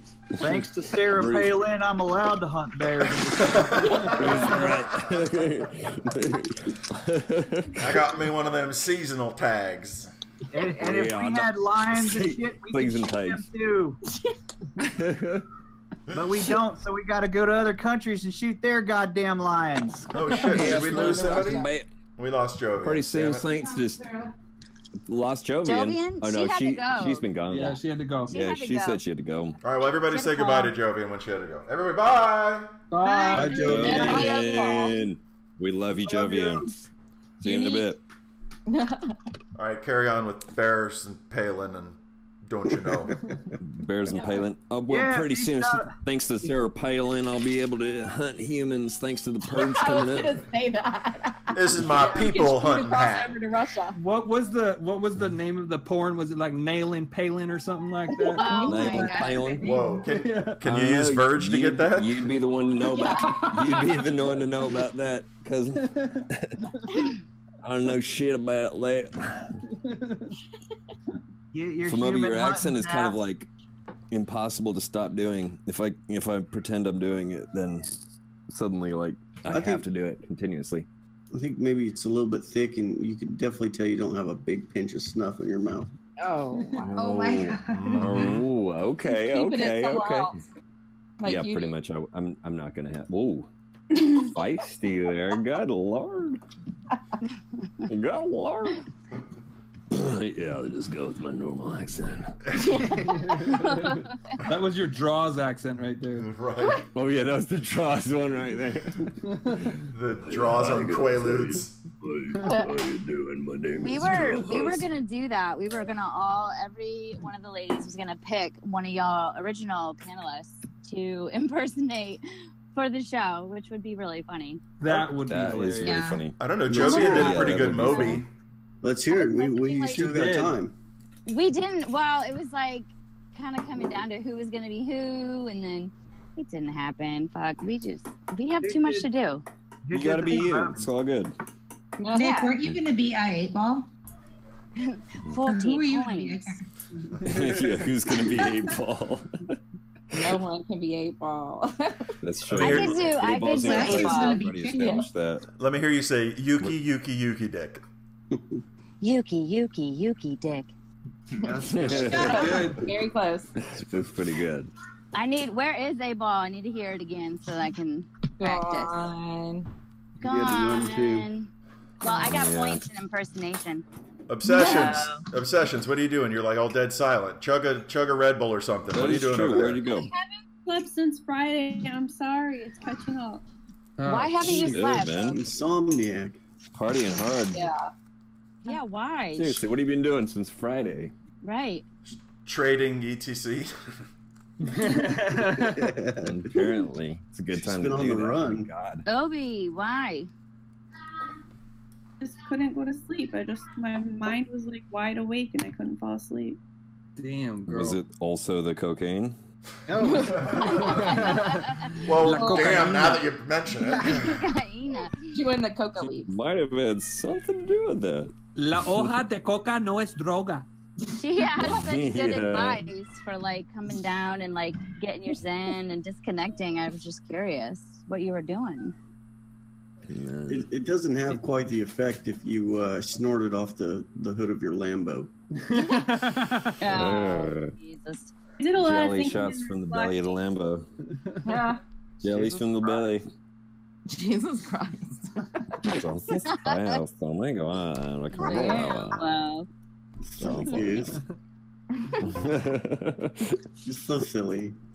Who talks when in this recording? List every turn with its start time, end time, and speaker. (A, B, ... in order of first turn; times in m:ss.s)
0:00.4-0:01.6 A
0:00.4-0:05.5 B
0:03.4-0:04.0 C
0:03.8-0:04.8 D
0:04.2-0:08.1 A
0:07.8-0:10.1 C
0:10.5-0:14.0 B
0:10.8-0:13.5 A
0:14.8-0:15.4 A
0:16.1-0:16.5 C
0:16.1-0:20.1 B
0:20.1-0:23.4 C
0:20.3-0:21.9 A
0:22.8-0:24.1 A
0:25.1-0:29.6 A
0:25.6-0:27.2 E
0:27.5-0:28.4 F
0:28.3-0:29.0 E
0:29.6-0:32.7 C
0:30.1-0:30.7 E
0:32.9-0:35.0 D
0:33.1-0:34.5 B
0:33.4-0:36.8 A
0:33.7-0:34.0 G
0:36.0-0:36.7 B
0:37.4-0:38.0 A
0:37.4-0:37.9 E
0:38.7-0:39.2 D
0:39.6-0:43.2 C
0:43.6-0:50.4 A
0:44.1-0:44.4 D
0:44.9-0:46.0 B
0:49.5-0:54.0 D
0:51.5-0:53.4 C
0:51.7-0:52.4 B
0:53.9-0:58.6 F
0:58.4-0:59.4 E
0:58.4-0:59.3 D
0:58.6-0:59.7 A
0:59.6-1:02.3 C
1:00.0-1:00.6 F
1:00.6-1:06.5 A
1:05.8-1:06.2 F
1:07.6-1:09.5 A
1:09.8-1:10.3 F
1:11.5-1:13.2 B
1:11.9-1:13.5 A
1:14.1-1:20.9 A
1:19.5-1:19.8 G
1:21.3-1:25.9 G
1:26.2-1:27.0 D
1:27.0-1:28.1 H
1:27.0-1:30.2 A
1:27.7-1:28.4 C
1:29.2-1:30.4 D
1:31.2-1:31.7 D
1:31.3-1:33.5 A
1:34.2-1:36.4 A
1:37.9-1:38.8 A
1:39.9-1:42.4 A
1:42.5-1:42.8 C
1:43.3-1:43.8 F
1:44.5-1:46.3 F
1:46.2-1:46.8 C
1:46.9-1:49.0 A
1:49.9-1:51.8 C
1:50.2-1:54.8 A
1:53.8-2:02.2 E
2:02.7-2:04.6 E
2:04.8-2:06.1 F
2:04.9-2:08.2 A
2:05.8-2:06.2 D
2:06.4-2:08.3 C
2:06.7-2:07.3 G
2:06.8-2:08.2 E
2:08.8-2:10.7 G
2:09.1-2:10.1 E
2:09.9-2:10.6 F
2:11.3-2:19.4 E
2:18.6-2:19.0 B
2:19.8-2:20.9 B
2:19.9-2:21.3 A
2:22.0-2:22.6 D
2:22.1-2:23.9 H
2:24.8-2:26.5 E
2:25.4-2:26.7 H
2:27.2-2:29.5 A
2:30.1-2:32.0 D
2:32.2-2:35.4 A
2:32.5-2:33.0 C
2:32.6-2:35.0 E
2:33.7-2:35.0 H
2:34.4-2:35.0 D
2:35.6-2:37.8 C
2:39.0-2:40.7 E
2:41.4-2:42.6 B
2:41.7-2:42.7 A
2:41.8-2:43.5 D
2:42.4-2:42.8 F
2:43.6-2:44.7 A
2:45.1-2:48.9 E
2:48.4-2:49.7 D
2:50.2-2:51.3 G
2:50.2-2:51.5 E
2:52.0-2:53.8 E
2:52.1-2:52.8 A
2:54.3-2:59.8 C
2:54.6-2:55.2 E
2:54.6-2:54.9 D
2:58.9-3:00.1 A
2:59.9-3:03.4 I
3:04.0-3:04.6 F
3:04.0-3:05.4 E
3:04.4-3:05.5 A
3:05.3-3:06.4 G
3:06.7-3:07.6 A
3:08.6-3:09.6 E
3:09.3-3:11.1 A
3:11.4-3:11.8 E
3:12.1-3:13.7 C
3:14.6-3:15.8 F
3:15.8-3:16.9 G
3:16.2-3:19.0 A
3:17.6-3:18.7 G
3:19.1-3:20.3 E
3:22.2-3:26.6 I
3:27.2-3:28.0 F
3:27.7-3:29.4 A
3:29.9-3:30.8 B
3:31.1-3:33.2 F
3:31.3-3:31.9 E
3:32.0-3:34.4 C
3:34.1-3:35.3 E
3:35.3-3:36.3 D
3:36.2-3:39.2 A
3:38.6-3:40.7 F
3:41.2-3:49.0 E
3:41.6-3:42.9 A
3:50.1-3:50.7 A
3:50.5-3:55.3 G
3:55.7-3:56.8 F
3:56.8-3:58.3 E
3:56.9-3:57.7 A
3:58.6-4:00.5 I
3:58.8-4:00.9 A
4:01.2-4:01.5 F
4:01.4-4:01.8 D
4:02.2-4:03.2 A
4:02.3-4:03.1 B
4:04.1-4:05.4 D
4:05.8-4:09.3 A
4:06.6-4:07.0 E
4:08.4-4:09.7 E
4:08.5-4:08.9 D
4:10.3-4:11.2 G
4:10.6-4:11.0 A
4:12.2-4:13.6 A
4:13.8-4:14.8 G